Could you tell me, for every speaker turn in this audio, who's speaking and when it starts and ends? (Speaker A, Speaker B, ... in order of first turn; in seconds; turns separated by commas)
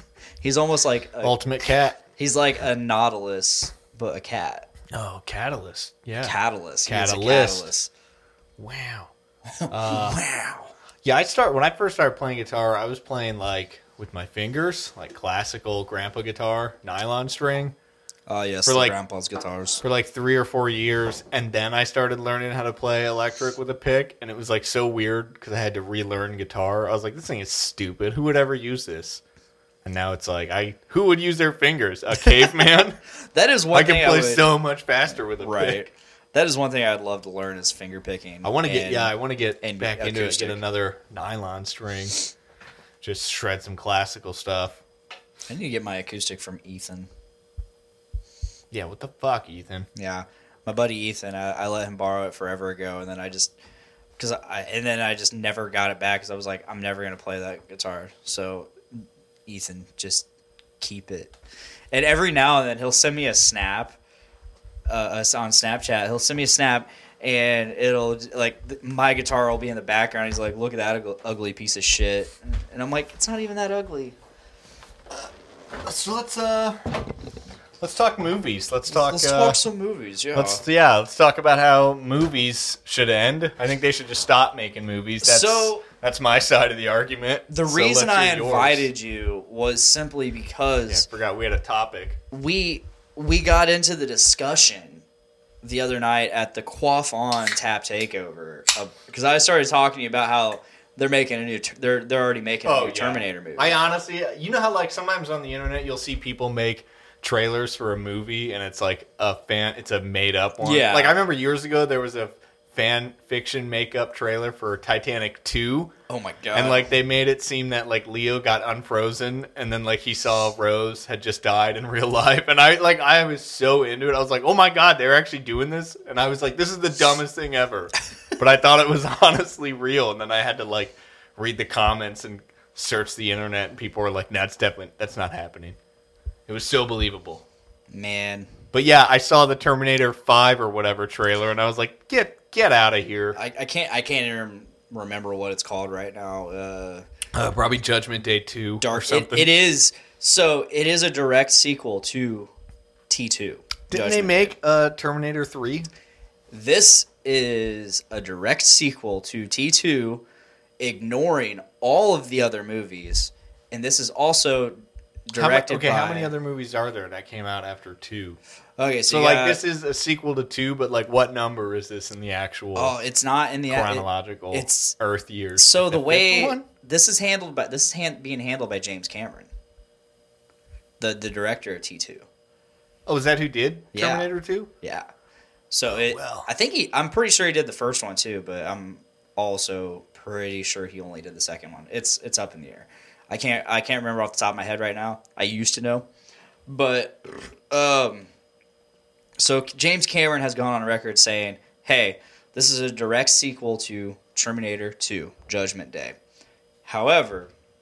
Speaker A: 0.4-1.4, Speaker B: 1.2-2.0, Speaker A: 2.2-4.7, Speaker B: 4.9-7.7, Speaker A: 6.2-7.9, Speaker B: 8.6-9.1, Speaker A: 9.6-10.7, Speaker B: 9.7-10.2, Speaker B: 11.0-17.8, Speaker A: 18.3-19.8, Speaker B: 18.7-19.0, Speaker B: 19.8-29.2, Speaker B: 29.9-33.0, Speaker A: 33.3-34.5, Speaker B: 33.7-35.9, Speaker A: 35.4-40.6, Speaker B: 38.4-42.2, Speaker B: 43.0-44.8, Speaker A: 45.5-47.1, Speaker B: 48.7-49.9, Speaker A: 50.0-53.5, Speaker A: 54.2-60.3, Speaker A: 60.8-61.3, Speaker A: 61.9-64.0, Speaker A: 64.9-74.2, Speaker B: 75.8-77.1, Speaker B: 77.8-79.6, Speaker A: 78.9-80.6, Speaker B: 80.3-88.9, Speaker A: 85.2-85.9, Speaker A: 87.5-91.1, Speaker B: 90.9-92.2, Speaker A: 92.3-95.0, Speaker A: 95.6-103.8, Speaker B: 102.7-115.9, Speaker A: 110.6-111.2, Speaker A: 116.1-116.9, Speaker B: 116.5-135.8, Speaker B: 136.5-137.4, Speaker A: 137.9-138.5, Speaker B: 138.7-143.4, Speaker A: 143.3-147.1, Speaker B: 147.3-149.5, Speaker A: 148.8-152.5, Speaker A: 153.1-154.6, Speaker B: 153.9-155.9, Speaker A: 156.5-160.2, Speaker A: 160.8-166.3, Speaker B: 165.3-168.4, Speaker A: 168.8-169.6, Speaker B: 169.1-173.0, Speaker A: 172.8-175.0, Speaker B: 173.7-176.7, Speaker A: 175.6-179.5, Speaker A: 181.0-182.3, Speaker B: 183.1-184.7, Speaker A: 183.9-184.3, Speaker A: 184.8-185.1, Speaker A: 185.7-196.1, Speaker B: 185.9-186.5, Speaker A: 196.7-198.3, Speaker A: 199.4-206.2, Speaker A: 206.8-207.5